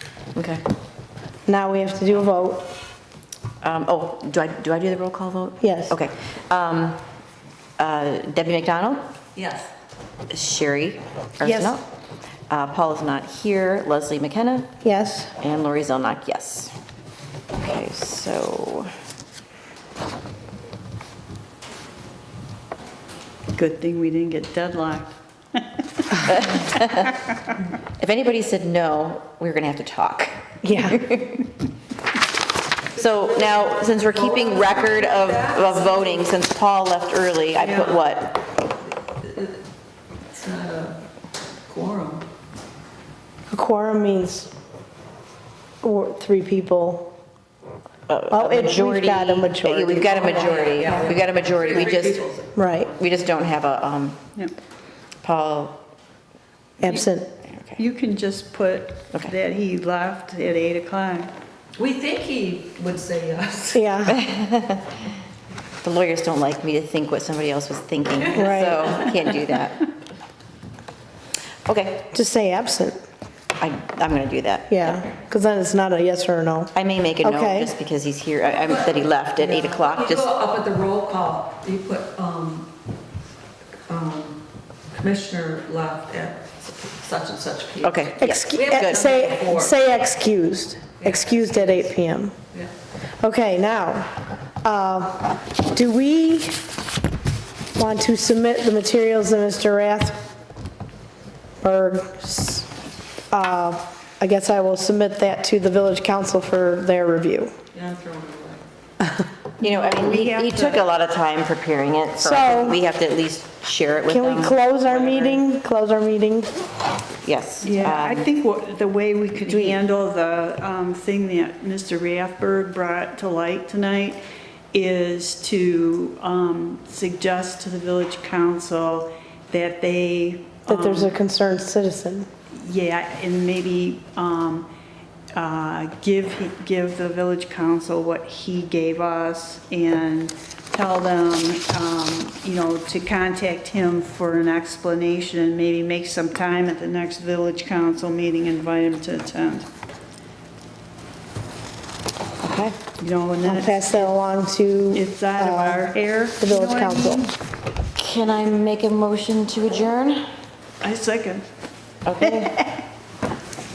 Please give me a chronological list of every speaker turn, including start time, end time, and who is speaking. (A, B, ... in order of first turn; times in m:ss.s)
0:00.4-0:00.6 A
0:01.5-0:02.7 B
0:03.6-0:07.0 A
0:05.6-0:06.0 B
0:07.8-0:09.1 A
0:09.4-0:09.7 C
0:10.3-0:11.8 A
0:11.4-0:11.7 B
0:12.5-0:14.7 A
0:14.8-0:15.3 B
0:15.4-0:16.7 A
0:17.6-0:18.9 A
0:23.5-0:26.0 D
0:26.2-0:27.2 A
0:28.0-0:31.5 A
0:30.6-0:31.0 B
0:32.9-0:38.4 A
0:33.0-0:36.4 C
0:37.6-0:38.0 C
0:39.2-0:39.6 C
0:40.3-0:41.0 C
0:41.7-0:42.2 C
0:43.5-0:44.5 B
0:45.8-0:47.1 B
0:48.1-0:52.3 A
0:48.3-0:50.9 B
0:50.1-0:52.5 C
0:52.6-0:52.9 B
0:53.0-0:54.2 A
0:55.2-0:55.8 A
0:56.8-0:57.3 B
0:57.5-0:57.8 A
0:57.8-1:01.3 D
1:01.8-1:03.8 C
1:03.7-1:04.2 B
1:04.1-1:05.0 A
1:05.8-1:09.9 A
1:08.3-1:09.2 B
1:11.6-1:12.1 A
1:12.1-1:13.0 B
1:13.6-1:15.1 A
1:14.7-1:17.7 B
1:16.8-1:20.4 A
1:18.7-1:22.7 C
1:23.9-1:24.4 C
1:25.0-1:29.7 C
1:27.8-1:29.1 A
1:28.2-1:32.4 B
1:31.0-1:31.8 C
1:33.2-1:34.1 B
1:34.6-1:36.6 B
1:37.8-1:40.2 B
1:41.6-1:42.7 B
1:43.3-1:47.5 B
1:47.7-1:48.6 C
1:49.6-1:55.4 A
1:49.7-1:50.8 D
1:52.2-1:52.8 B
1:54.1-1:56.5 B
1:57.2-1:58.3 A
1:57.6-2:11.1 D
1:59.5-1:59.8 A
2:10.7-2:12.3 B
2:12.5-2:14.7 D
2:15.3-2:29.7 D
2:32.4-2:32.8 A
2:33.0-2:34.1 D
2:33.4-2:37.3 B
2:34.9-2:37.3 D
2:38.0-2:40.3 A
2:40.8-2:41.5 D
2:42.0-2:42.6 A
2:42.2-2:42.8 D